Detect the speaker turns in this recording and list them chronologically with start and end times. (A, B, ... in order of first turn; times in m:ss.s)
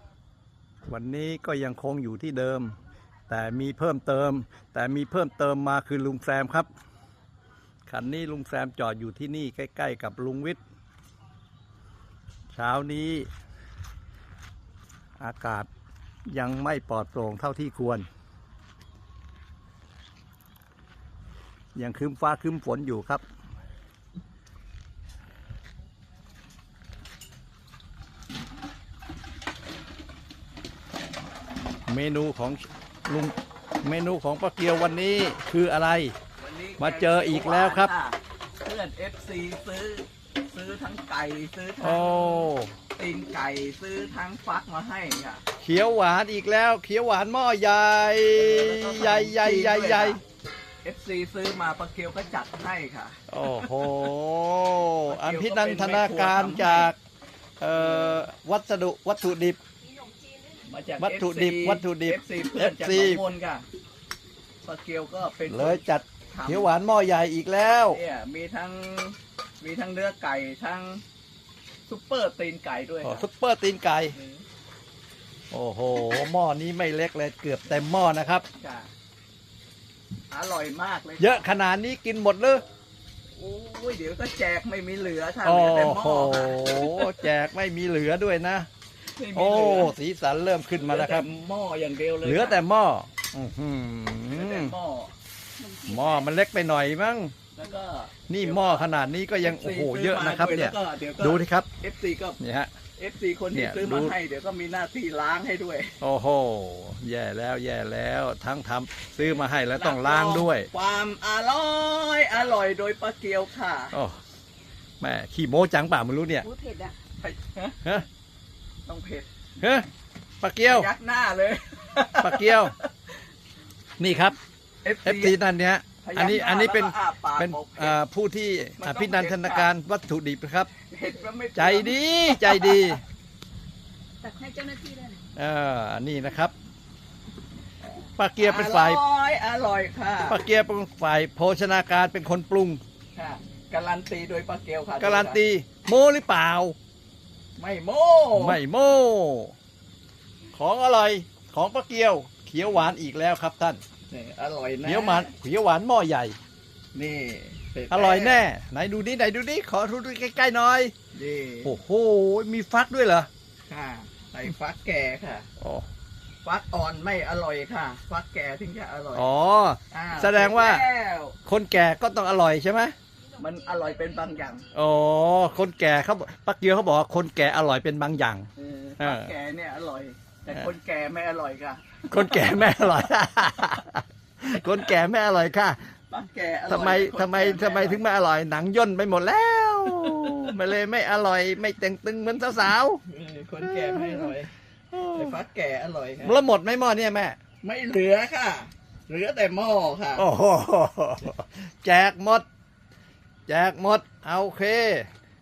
0:00.9-0:02.8 A
0:03.3-0:06.7 A
0:07.9-0:10.6 A
0:12.5-0:13.3 A
0:15.2-0:15.7 A
0:16.3-0:18.1 A
0:21.8-0:23.2 A
0:31.9-0:36.1 A
0:36.4-0:45.4 B
0:36.8-0:37.9 A
0:41.8-0:42.7 A
0:45.6-0:50.2 A
0:48.3-0:50.2 B
0:50.8-0:53.2 B
0:53.3-0:57.0 A
0:55.1-0:56.9 B
0:57.6-0:59.6 A
0:57.7-0:58.3 B
1:00.0-1:00.4 C
1:00.6-1:03.7 B
1:01.0-1:03.2 A
1:04.6-1:06.7 B
1:05.5-1:08.0 A
1:07.9-1:11.0 B
1:11.9-1:13.3 B
1:13.0-1:14.2 A
1:14.1-1:14.4 B
1:15.5-1:18.5 A
1:18.6-1:18.9 B
1:20.3-1:21.5 B
1:21.2-1:22.6 A
1:23.4-1:27.3 B
1:25.4-1:28.7 A
1:29.1-1:29.9 B
1:29.3-1:31.3 A
1:30.8-1:32.6 B
1:32.2-1:34.7 A
1:34.3-1:35.2 B
1:35.6-1:36.2 C
1:35.9-1:37.3 A
1:37.6-1:42.4 B
1:38.3-1:41.7 A
1:42.4-1:42.7 A
1:43.0-1:46.0 B
1:43.5-1:44.2 A
1:46.0-1:50.7 A
1:49.8-1:54.0 B
1:53.9-1:54.2 A
1:55.0-1:56.5 A
1:56.4-1:57.0 C
1:57.2-1:58.0 B
1:58.9-1:59.3 B
1:59.6-1:59.9 A
2:00.4-2:00.9 A
2:00.7-2:02.9 B
2:02.2-2:02.8 A
2:04.0-2:04.4 A
2:04.8-2:05.4 B
2:05.0-2:10.7 A
2:06.0-2:08.0 B
2:08.8-2:09.7 B
2:10.9-2:13.0 B
2:11.6-2:13.0 A
2:14.2-2:15.2 C
2:15.4-2:16.5 A
2:18.2-2:19.0 A
2:18.4-2:20.4 B
2:20.3-2:22.8 A
2:23.2-2:25.4 B
2:25.0-2:26.8 A
2:27.6-2:28.6 B
2:28.4-2:29.5 A
2:30.6-2:33.8 A
2:34.1-2:35.3 B
2:34.8-2:36.4 A
2:36.9-2:38.4 B
2:37.9-2:40.9 A
2:41.1-2:41.8 B
2:41.6-2:43.3 A
2:43.7-2:45.5 B
2:45.6-2:45.9 A
2:46.4-2:49.3 B
2:49.1-2:50.9 A
2:49.9-2:51.4 B
2:51.5-2:53.0 A
2:53.4-2:54.7 B
2:53.5-2:53.9 C
2:54.7-2:58.5 A
2:58.6-3:02.7 B
2:59.0-2:59.3 A
3:02.1-3:05.8 A
3:06.1-3:08.0 B
3:06.7-3:13.0 A
3:10.1-3:10.5 B
3:13.1-3:14.5 B
3:13.6-3:14.3 A
3:14.9-3:15.4 A
3:15.1-3:16.4 B
3:16.2-3:17.4 A
3:17.6-3:20.3 B
3:20.2-3:22.4 A
3:23.5-3:25.1 A